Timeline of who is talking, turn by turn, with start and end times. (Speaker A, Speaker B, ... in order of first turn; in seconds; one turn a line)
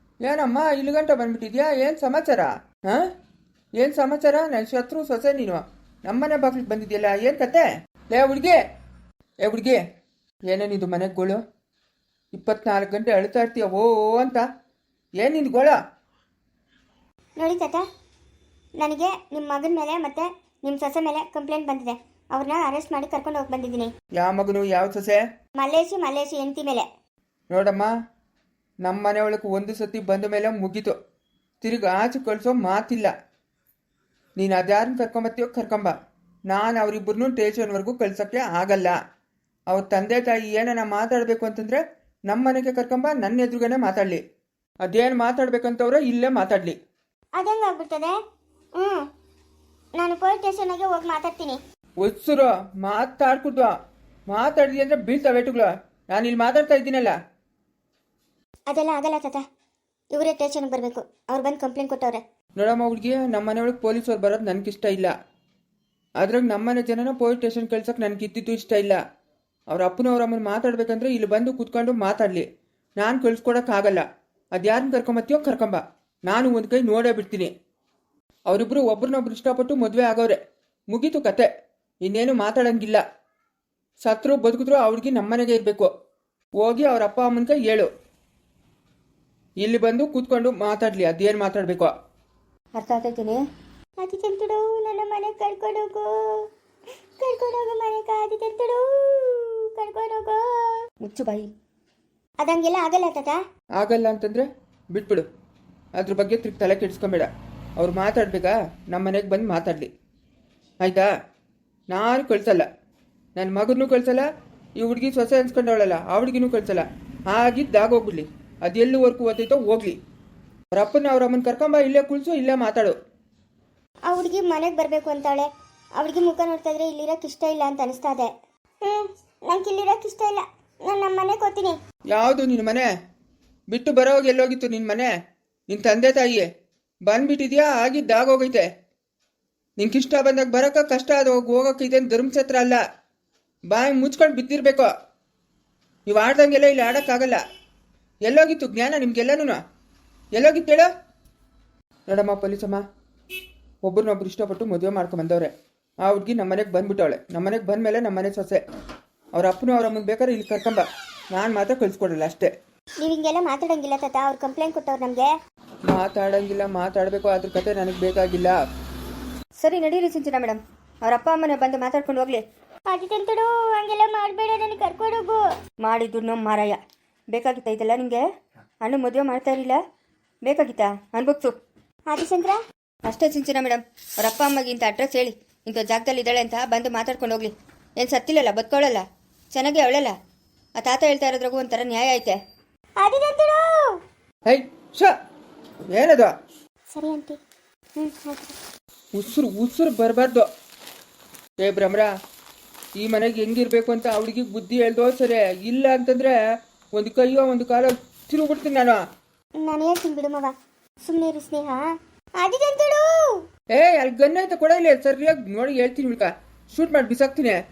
Speaker A: 0.2-3.1
Speaker A: 3.8-8.6
Speaker A: 9.4-9.8
Speaker A: 10.5-11.4
Speaker A: 12.3-14.5
Speaker A: 15.2-15.8
Speaker B: 17.4-17.8
Speaker B: 18.8-23.9
Speaker A: 24.2-25.2
Speaker B: 25.6-26.9
Speaker A: 27.5-27.9
Speaker A: 28.8-30.9
Speaker A: 31.6-33.1
Speaker A: 34.4-35.9
Speaker A: 36.5-38.9
Speaker A: 39.7-44.2
Speaker A: 44.8-46.8
Speaker B: 47.4-48.1
Speaker B: 48.8-49.0
Speaker B: 50.0-51.6
Speaker A: 52.0-53.7
Speaker A: 54.3-57.1
Speaker B: 58.7-59.4
Speaker B: 60.1-62.2
Speaker A: 62.6-65.1
Speaker A: 66.2-69.0
Speaker A: 69.7-72.5
Speaker A: 73.0-77.5
Speaker A: 78.5-80.4
Speaker A: 80.9-81.5
Speaker A: 82.0-83.0
Speaker A: 84.0-85.9
Speaker A: 86.6-87.9
Speaker A: 89.6-91.9
Speaker C: 92.7-93.4
Speaker B: 94.0-96.5
Speaker B: 97.2-100.8
Speaker C: 101.0-101.5
Speaker B: 102.4-103.4
Speaker A: 103.8-105.2
Speaker A: 106.0-109.9
Speaker A: 110.8-111.1
Speaker A: 111.9-112.7
Speaker A: 113.3-120.0
Speaker A: 120.7-123.0
Speaker B: 124.1-128.3
Speaker B: 128.8-131.8
Speaker A: 132.1-132.9
Speaker A: 133.7-135.1
Speaker A: 135.7-136.5
Speaker A: 137.1-138.7
Speaker A: 139.8-142.8
Speaker A: 143.7-144.9
Speaker A: 146.1-147.4
Speaker A: 148.2-149.6
Speaker A: 150.3-150.9
Speaker A: 152.1-152.8
Speaker A: 153.8-155.5
Speaker A: 156.0-158.6
Speaker A: 159.3-162.5
Speaker B: 163.0-165.3
Speaker A: 165.9-168.6
Speaker C: 169.6-172.4
Speaker B: 172.9-175.4
Speaker C: 175.8-176.8
Speaker C: 177.3-178.2
Speaker C: 178.8-179.8
Speaker C: 180.4-181.5
Speaker B: 182.1-182.6
Speaker C: 183.1-190.1
Speaker C: 190.8-192.4
Speaker B: 193.0-193.9
Speaker A: 194.5-195.1
Speaker A: 195.9-196.3
Speaker B: 196.9-197.4
Speaker B: 198.0-198.5
Speaker A: 199.1-200.4
Speaker A: 201.6-202.1
Speaker A: 203.0-206.4
Speaker A: 206.9-209.0
Speaker B: 209.6-210.5
Speaker B: 211.1-211.8
Speaker B: 212.4-213.3
Speaker A: 213.7-217.6